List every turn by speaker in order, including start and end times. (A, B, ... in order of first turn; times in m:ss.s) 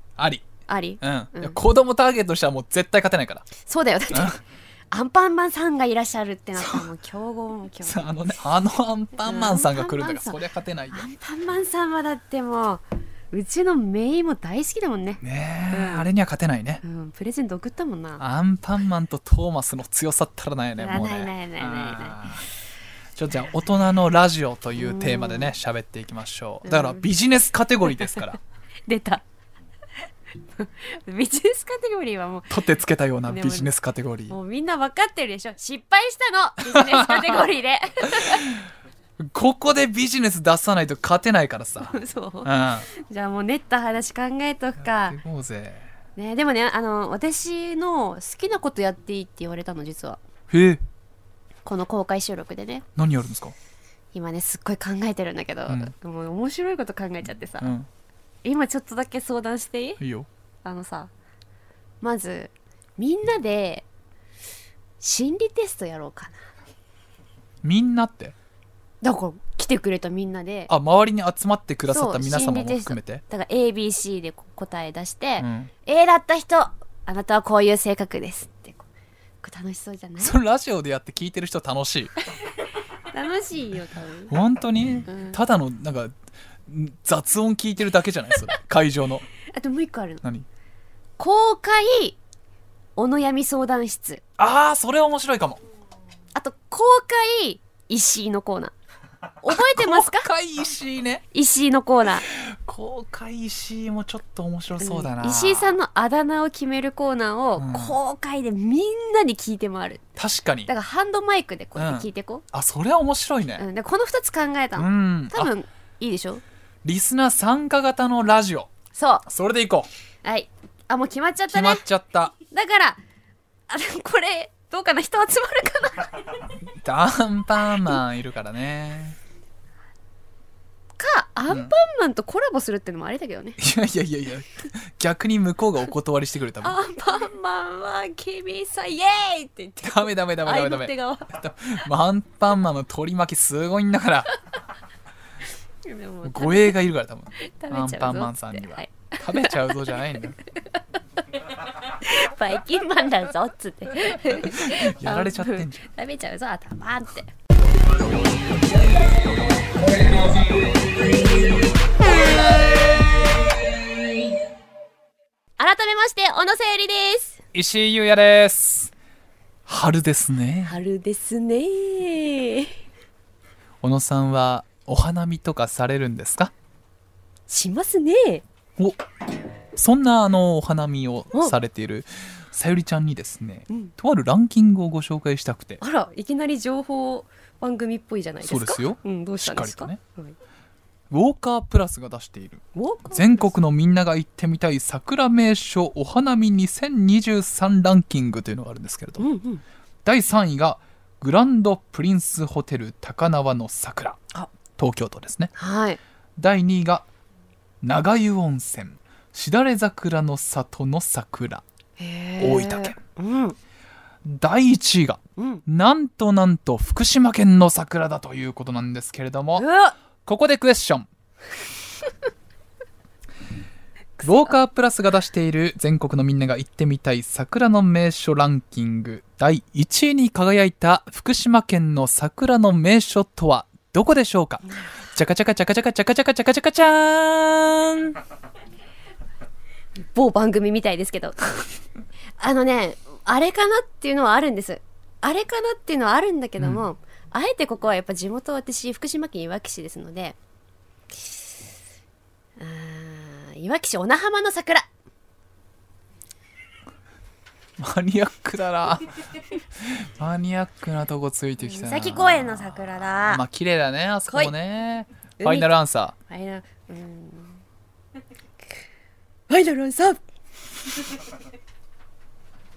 0:00.2-0:00.5 A
0:00.7-0:01.6 B
0:01.0-0:03.5 A
0:03.6-0:08.1 B
0:04.1-0:04.4 A
0:06.6-0:06.9 A
0:07.8-0:11.0 A
0:09.2-0:10.4 B
0:10.9-0:16.1 B
0:15.2-0:16.8 A
0:16.8-0:18.2 B
0:18.2-0:22.4 A
0:20.8-0:22.3 B
0:23.2-0:28.4 A
0:24.8-0:25.5 B
0:26.6-0:27.0 B
0:28.9-0:29.2 B
0:30.6-0:32.6 B
0:32.5-0:34.4 A
0:33.3-0:33.7 B
0:34.3-0:38.5 B
0:36.6-0:37.5 A
0:38.1-0:38.6 A
0:39.2-0:42.9 A
0:41.8-0:45.2 B
0:44.8-0:45.9 A
0:46.2-0:50.2 B
0:50.5-0:50.8 A
0:51.6-0:52.8 B
0:53.0-0:53.5 A
0:54.1-0:57.7 B
0:55.7-0:55.9 A
0:57.6-0:57.9 A
0:58.4-1:00.0 B
1:00.0-1:00.3 A
1:00.6-1:01.1 B
1:02.0-1:03.8 B
1:05.0-1:06.4 B
1:07.6-1:08.3 A
1:09.0-1:10.7 B
1:10.7-1:13.2 A
1:11.9-1:18.8 B
1:15.4-1:15.7 A
1:19.4-1:20.3 B
1:20.2-1:22.1 A
1:23.1-1:24.3 B
1:24.3-1:26.1 A
1:25.1-1:25.4 B
1:26.6-1:29.2 A
1:29.5-1:30.2 B
1:31.2-1:32.2 B
1:33.0-1:34.2 B
1:34.4-1:35.6 A
1:36.3-1:38.7 B
1:39.4-1:40.3 B
1:39.5-1:41.2 A
1:41.3-1:42.3 B
1:42.2-1:45.8 A
1:44.8-1:50.0 B
1:47.6-1:48.0 A
1:50.2-1:50.7 A
1:50.7-1:52.4 B
1:51.8-1:53.6 A
1:53.6-1:56.4 B
1:54.8-1:55.5 A
1:56.8-1:58.7 A
1:58.9-1:59.2 B
1:59.2-1:59.9 A
2:00.2-2:01.8 B
2:01.5-2:02.3 A
2:02.5-2:03.0 B
2:03.7-2:06.3 B
2:06.8-2:09.2 A
2:11.0-2:13.6 B
2:11.5-2:11.7 A
2:13.6-2:16.8 A
2:16.6-2:21.3 B
2:19.8-2:24.3 A
2:25.8-2:26.8 B
2:26.2-2:30.4 A
2:27.4-2:29.7 B
2:32.0-2:37.3 B
2:34.3-2:35.9 A
2:45.6-2:47.4 B
2:47.5-2:48.9 A
2:49.6-2:50.8 A
2:50.6-2:52.7 B
2:53.8-2:56.5 A
2:57.5-2:58.4 B
2:59.7-3:05.8 A
3:05.8-3:10.4 B
3:08.4-3:10.0 A
3:11.1-3:19.2 A
3:12.7-3:13.5 B
3:19.2-3:19.6 B
3:20.0-3:24.2 A
3:24.7-3:25.5 A
3:25.6-3:26.0 B
3:26.4-3:27.0 A
3:27.8-3:31.6 A
3:32.0-3:33.6 B
3:32.4-3:33.0 A
3:34.2-3:39.7 A
3:35.4-3:35.6 B
3:39.6-3:39.9 B
3:40.2-3:41.1 A
3:44.2-3:58.2 A
4:00.1-4:01.7 B
4:02.4-4:10.4 B
4:06.6-4:06.8 A
4:12.6-4:14.9 B
4:17.8-4:19.2 A
4:19.8-4:26.1 A
4:21.6-4:23.4 B
4:24.3-4:24.5 B
4:25.4-4:25.7 B
4:26.3-4:27.6 B
4:29.5-4:30.2 B